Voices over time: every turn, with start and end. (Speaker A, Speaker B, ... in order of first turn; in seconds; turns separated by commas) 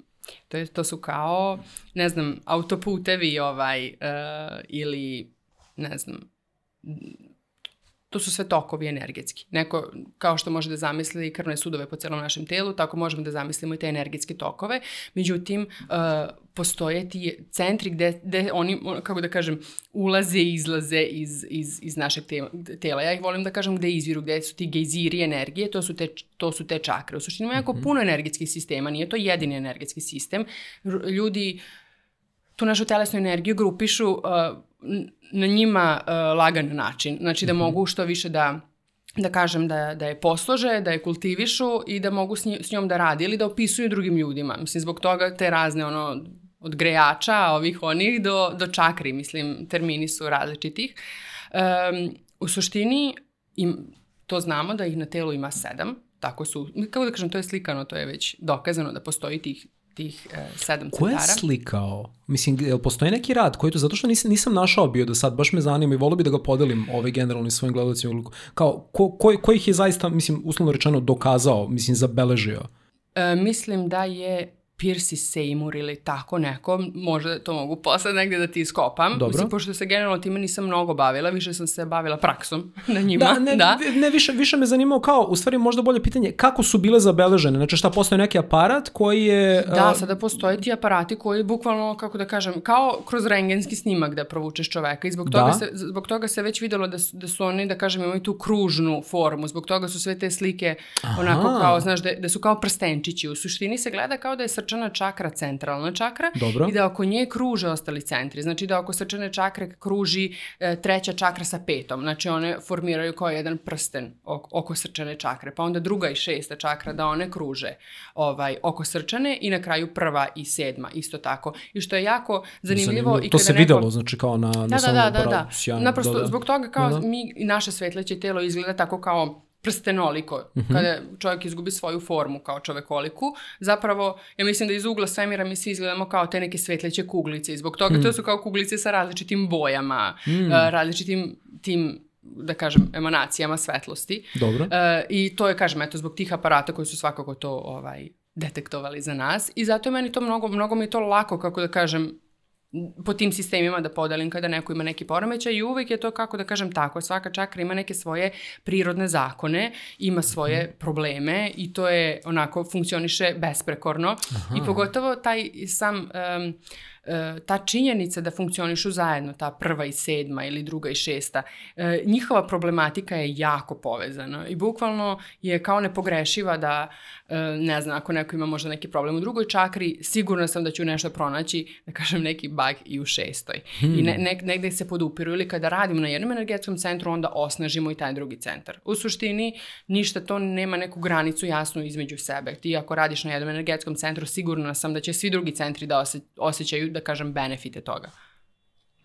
Speaker A: 0.5-6.2, Speaker A: 6.8-7.2, Speaker A: 8.1-31.6, Speaker A: 32.6-38.6, Speaker B: 37.5-37.8, Speaker A: 39.2-51.0, Speaker A: 51.5-61.4, Speaker B: 60.9-72.7, Speaker A: 73.1-83.8, Speaker B: 79.1-79.5, Speaker B: 83.1-90.0, Speaker A: 89.6-123.9, Speaker B: 95.2-95.6, Speaker B: 101.0-101.8, Speaker B: 106.3-106.7, Speaker B: 122.7-127.0, Speaker A: 124.7-152.1, Speaker B: 130.6-130.9, Speaker B: 140.3-140.7, Speaker B: 144.3-144.7, Speaker A: 152.7-198.1, Speaker B: 164.3-164.8, Speaker B: 183.8-184.2